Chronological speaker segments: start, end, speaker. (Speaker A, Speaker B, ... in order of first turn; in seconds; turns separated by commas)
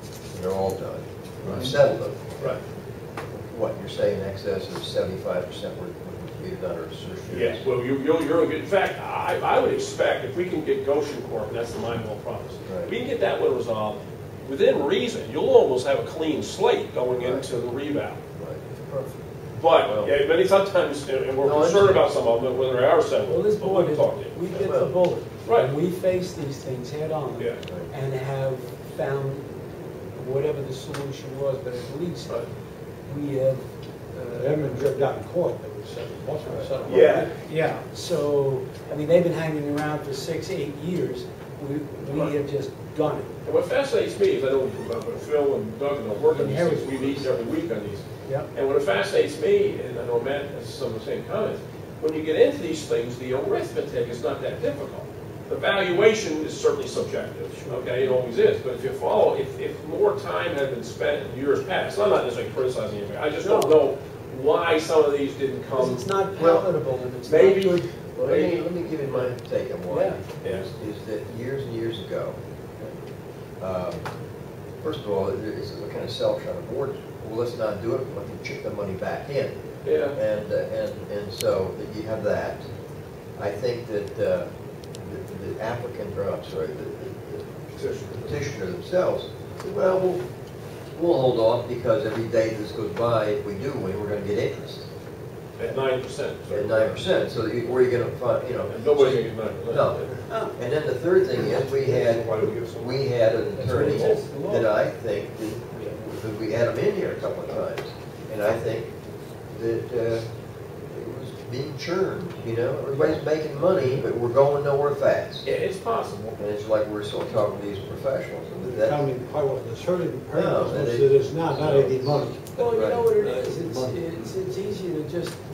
Speaker A: 0.3-2.6, Speaker A: 3.3-7.6, Speaker B: 7.3-18.2, Speaker A: 12.7-12.9, Speaker A: 17.2-17.4, Speaker A: 18.4-18.6, Speaker B: 19.5-24.6, Speaker A: 19.9-20.1, Speaker A: 21.4-22.0, Speaker C: 23.2-32.4, Speaker A: 24.5-24.9, Speaker B: 25.4-25.7, Speaker B: 27.4-27.6, Speaker A: 27.6-27.9, Speaker C: 33.1-34.9, Speaker D: 34.4-37.1, Speaker C: 36.4-43.3, Speaker B: 36.8-37.3, Speaker B: 42.1-42.3, Speaker B: 43.5-66.6, Speaker C: 46.3-47.2, Speaker C: 57.5-58.0, Speaker C: 63.4-63.8, Speaker C: 65.7-67.9, Speaker B: 67.2-69.3, Speaker A: 68.2-72.9, Speaker C: 69.9-70.2, Speaker B: 70.4-70.7, Speaker A: 73.6-74.1, Speaker A: 74.8-82.7, Speaker B: 79.8-80.2, Speaker A: 83.4-84.5, Speaker A: 85.0-90.2, Speaker A: 91.0-94.9, Speaker B: 95.6-97.0, Speaker A: 96.5-100.0, Speaker B: 98.7-100.2, Speaker C: 100.3-100.6, Speaker A: 100.6-109.0, Speaker C: 103.6-104.7, Speaker A: 109.5-110.3, Speaker A: 110.9-115.5, Speaker B: 115.4-116.4, Speaker A: 116.4-119.1, Speaker D: 118.7-122.4, Speaker A: 120.3-123.1, Speaker C: 122.5-125.4, Speaker D: 123.2-124.1